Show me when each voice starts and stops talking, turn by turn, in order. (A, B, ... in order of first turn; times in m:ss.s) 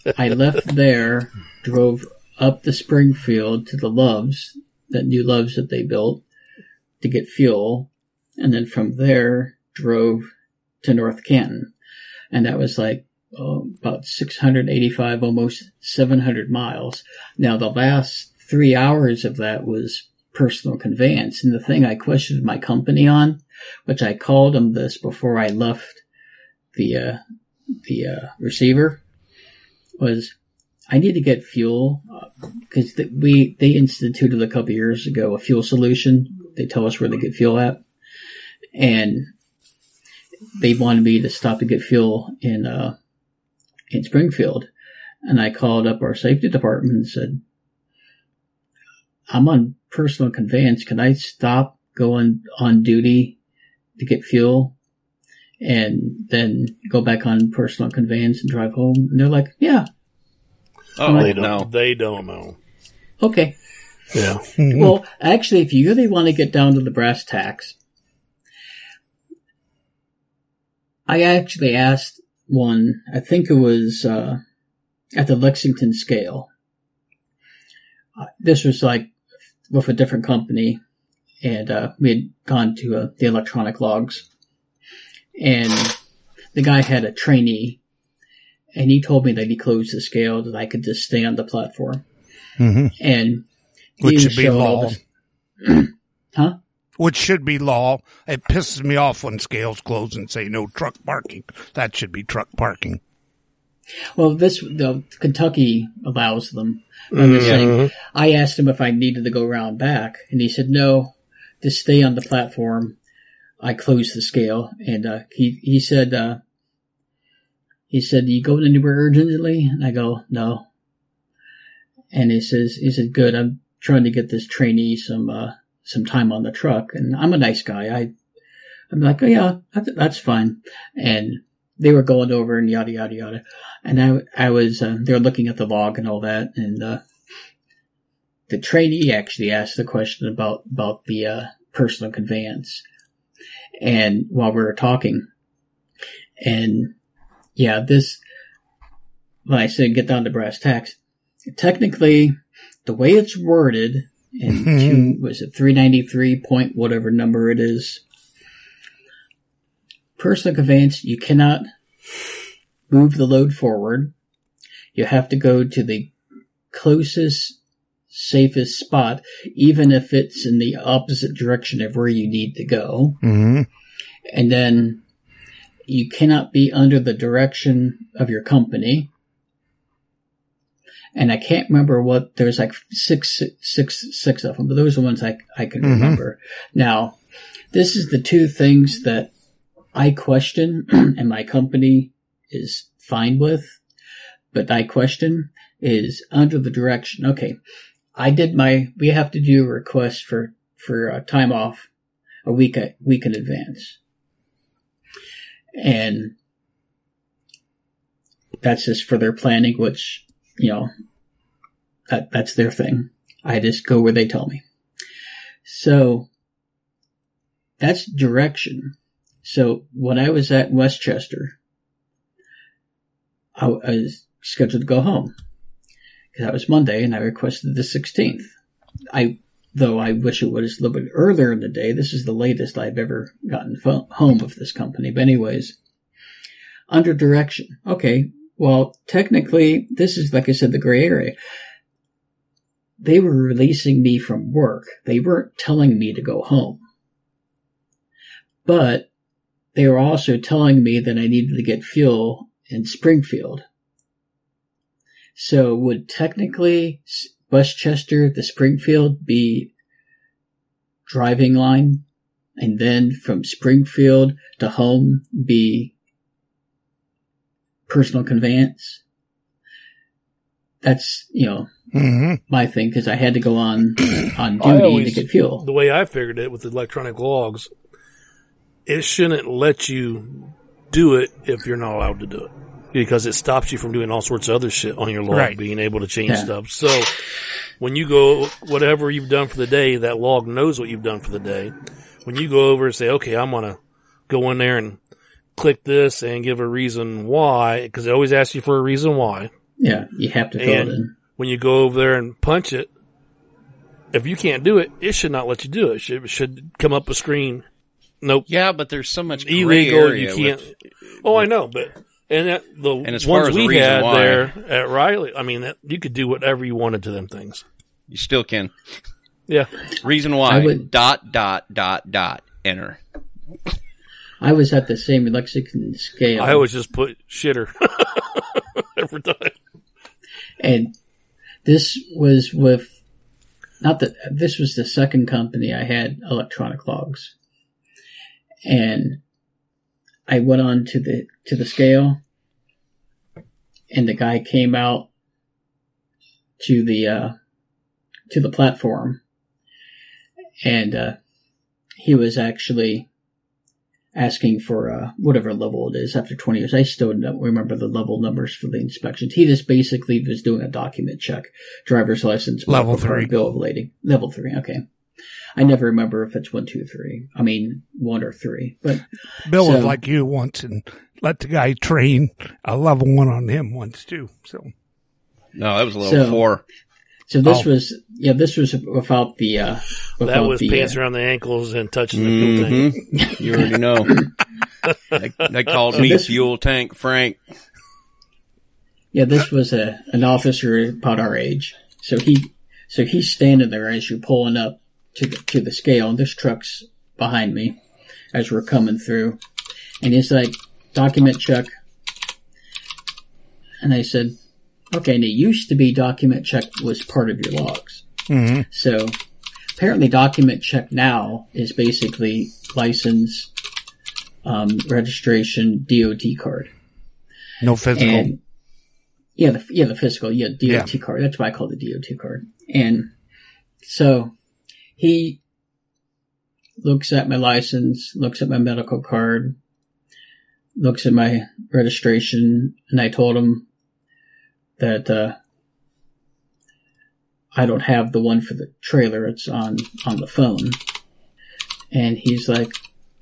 0:00.1-0:06.2 A
0:07.0-0:10.3 A
0:10.8-0:11.7 A
0:12.3-0:26.0 A
0:26.8-0:27.2 A
0:27.8-0:29.0 A
0:30.0-0:30.3 A
0:30.9-0:37.8 A
0:38.8-0:39.3 A
0:40.6-0:43.0 A
0:43.9-0:44.7 A
0:45.2-0:47.4 A
0:49.3-0:53.4 A
0:54.0-0:54.8 A
0:55.6-0:59.9 A
1:01.0-1:01.7 B
1:01.0-1:01.4 A
1:01.1-1:02.6 C
1:03.2-1:03.6 A
1:04.1-1:04.5 C
1:04.6-1:04.9 D
1:04.6-1:07.8 A
1:11.1-1:14.4 A
1:15.2-1:16.5 A
1:18.2-1:19.1 A
1:19.7-1:20.8 A
1:21.4-1:24.2 A
1:25.4-1:26.0 A
1:26.6-1:27.8 A
1:28.7-1:32.0 A
1:32.6-1:33.0 D
1:33.0-1:33.5 A
1:34.0-1:35.0 D
1:34.0-1:35.0 A
1:35.6-1:36.6 A
1:37.0-1:43.0 D
1:44.2-1:53.0 A
1:47.1-1:47.9 C
1:53.6-1:56.4 A
1:57.9-2:00.6 A
2:02.1-2:08.1 A
2:08.9-2:17.0 A
2:18.5-2:22.8 A
2:23.8-2:25.3 A
2:26.4-2:26.9 A
2:27.6-2:28.2 A
2:29.5-2:31.0 A
2:31.5-2:38.0 A
2:34.5-2:35.2 D
2:40.2-2:41.7 A
2:42.9-2:44.1 A
2:45.0-2:46.1 A
2:46.7-2:47.6 A
2:48.1-2:53.2 A
2:53.2-2:53.7 D
2:54.3-2:55.0 A
2:55.9-2:59.1 A
3:01.2-3:07.2 A
3:05.8-3:06.2 D
3:07.7-3:09.3 A
3:09.9-3:13.8 A
3:14.5-3:17.6 A
3:18.2-3:21.9 A
3:22.4-3:24.0 A
3:25.8-3:26.3 A
3:28.6-3:30.9 A
3:32.1-3:34.6 A
3:35.6-3:36.3 A
3:37.8-3:41.6 A
3:43.6-3:45.3 A
3:46.3-3:48.5 A
3:49.1-3:55.8 A
3:56.9-4:01.4 A
4:03.0-4:06.8 A
4:08.7-4:09.1 A
4:09.8-4:13.6 A
4:15.4-4:19.7 A
4:21.1-4:22.0 A
4:22.6-4:25.9 A
4:27.9-4:29.0 A
4:30.8-4:31.7 A
4:31.9-4:32.4 D
4:32.5-4:35.6 A
4:34.6-4:37.7 C
4:38.9-4:47.1 C
4:45.3-4:45.6 D
4:46.3-4:46.5 A
4:47.8-4:51.7 C
4:52.2-4:55.0 C
4:55.6-4:59.5 C
4:59.8-5:01.1 A
5:00.6-5:02.9 C
5:04.1-5:07.6 C
5:08.2-5:08.5 C
5:08.5-5:10.7 B
5:09.4-5:10.7 C
5:11.2-5:17.6 C
5:13.0-5:14.5 B
5:18.1-5:18.7 B
5:20.0-5:23.0 B
5:20.5-5:20.9 A
5:24.4-5:26.6 A
5:26.4-5:29.6 C
5:30.6-5:30.9 A
5:31.6-5:33.0 A
5:33.8-5:37.3 A
5:38.6-5:39.2 A
5:40.3-5:42.2 A
5:43.9-5:45.1 A
5:46.6-5:47.4 A
5:48.3-5:49.2 A
5:50.6-5:51.2 A
5:52.0-5:53.1 A
5:54.2-6:04.8 A
6:02.7-6:03.3 D
6:05.6-6:10.0 A
6:09.4-6:14.7 D
6:15.6-6:16.6 B
6:16.0-6:16.4 A
6:17.3-6:21.0 A
6:20.2-6:23.0 C
6:22.1-6:24.3 B
6:23.1-6:23.4 A
6:25.1-6:27.4 B
6:26.0-6:26.4 A
6:29.1-6:37.8 A
6:38.3-6:39.4 A
6:40.0-6:41.7 A
6:43.8-6:44.4 A
6:44.9-6:48.1 A
6:48.3-6:48.7 D
6:48.7-6:49.2 A
6:49.8-6:53.5 A
6:54.4-6:56.7 A
6:57.6-6:58.3 D
6:57.9-6:58.4 A
6:59.4-7:03.1 A
7:03.8-7:04.3 A
7:05.0-7:05.4 A
7:06.8-7:09.6 A
7:10.8-7:13.7 A
7:14.8-7:15.4 A
7:17.5-7:20.8 A
7:21.9-7:22.8 A